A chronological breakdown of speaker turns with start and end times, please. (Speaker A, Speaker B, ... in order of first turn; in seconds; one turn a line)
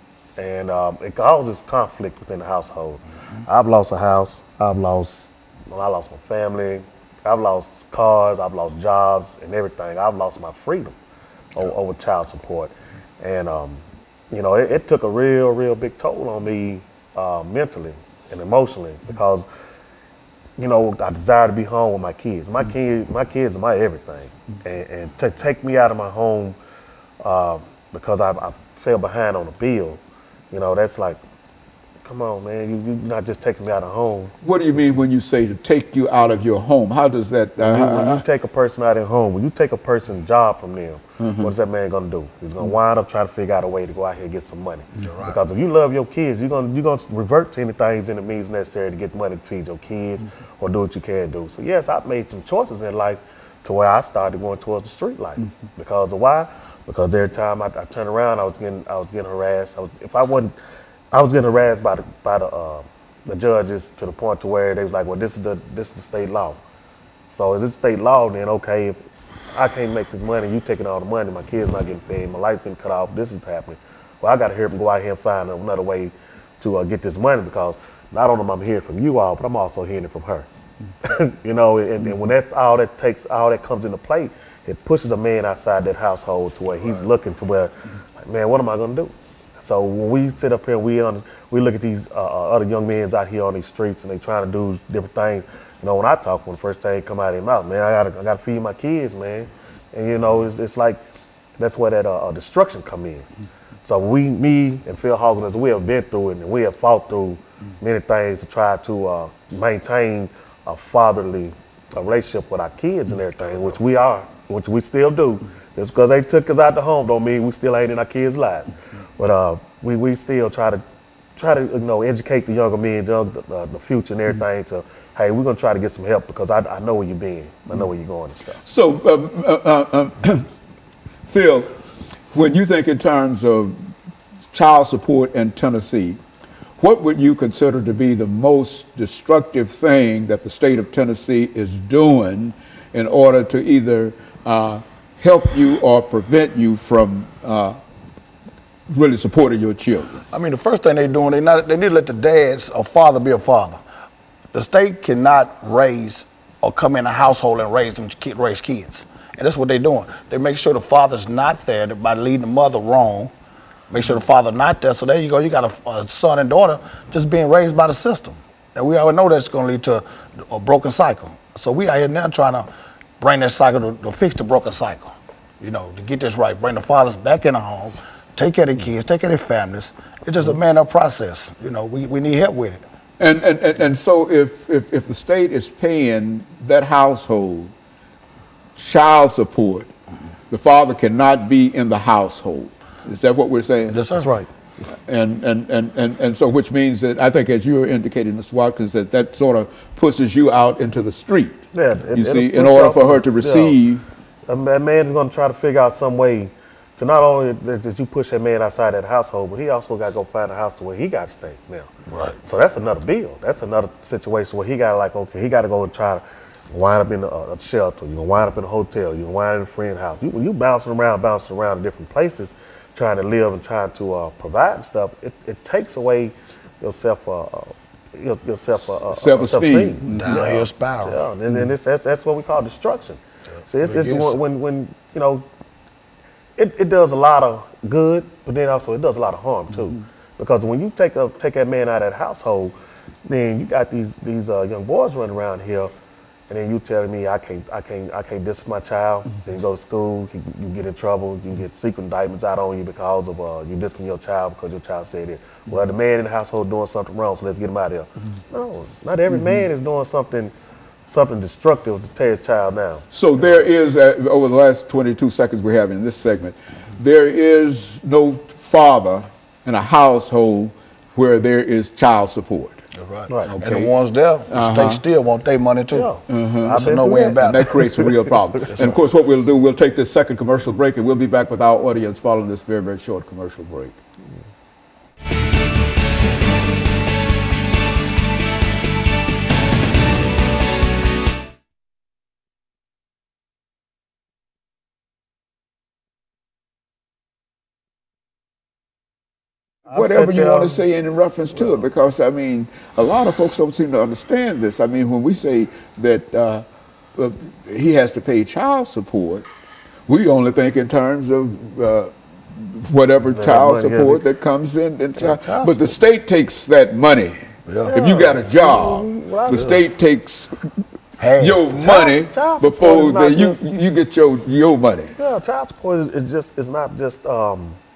Speaker A: 0.4-10.9
Speaker A: 11.5-19.4
Speaker A: 20.6-26.6
Speaker A: 27.2-30.0
Speaker A: 30.5-31.2
Speaker A: 32.0-34.3
Speaker B: 34.4-38.2
Speaker A: 37.6-60.5
Speaker B: 41.2-41.5
Speaker C: 45.0-45.3
Speaker A: 61.1-66.6
Speaker A: 67.3-69.0
Speaker A: 69.5-80.5
Speaker A: 81.0-101.0
Speaker A: 101.6-103.3
Speaker A: 103.8-120.8
Speaker A: 121.4-128.6
Speaker B: 128.6-130.5
Speaker B: 131.3-131.7
Speaker B: 132.3-133.9
Speaker B: 134.5-136.2
Speaker B: 136.8-147.8
Speaker B: 148.9-150.2
Speaker C: 150.3-153.8
Speaker C: 154.5-163.3
Speaker C: 163.9-172.7
Speaker C: 173.2-182.8
Speaker B: 183.2-187.7
Speaker B: 188.8-189.9
Speaker B: 190.5-194.0
Speaker C: 193.9-194.3
Speaker A: 194.1-194.5
Speaker B: 194.9-204.0
Speaker A: 201.7-203.8
Speaker A: 204.5-211.9
Speaker C: 212.1-212.4
Speaker A: 212.4-235.4
Speaker B: 229.1-230.4
Speaker C: 230.1-231.2
Speaker C: 233.8-234.3
Speaker A: 236.6-242.7
Speaker A: 243.2-245.9
Speaker A: 246.5-260.5
Speaker A: 261.1-263.1
Speaker B: 263.1-272.8
Speaker C: 272.9-276.1
Speaker B: 273.5-273.9
Speaker B: 274.5-275.0
Speaker A: 275.9-278.1
Speaker B: 276.3-284.0
Speaker C: 276.7-277.9
Speaker A: 299.9-300.8
Speaker B: 299.9-306.6
Speaker B: 307.1-309.4
Speaker B: 310.1-317.4
Speaker A: 313.3-314.2
Speaker C: 315.2-315.9
Speaker C: 317.7-317.9
Speaker A: 317.8-319.8
Speaker B: 317.9-320.7
Speaker C: 321.2-321.8
Speaker B: 321.4-325.1
Speaker A: 321.7-323.6
Speaker A: 325.2-327.8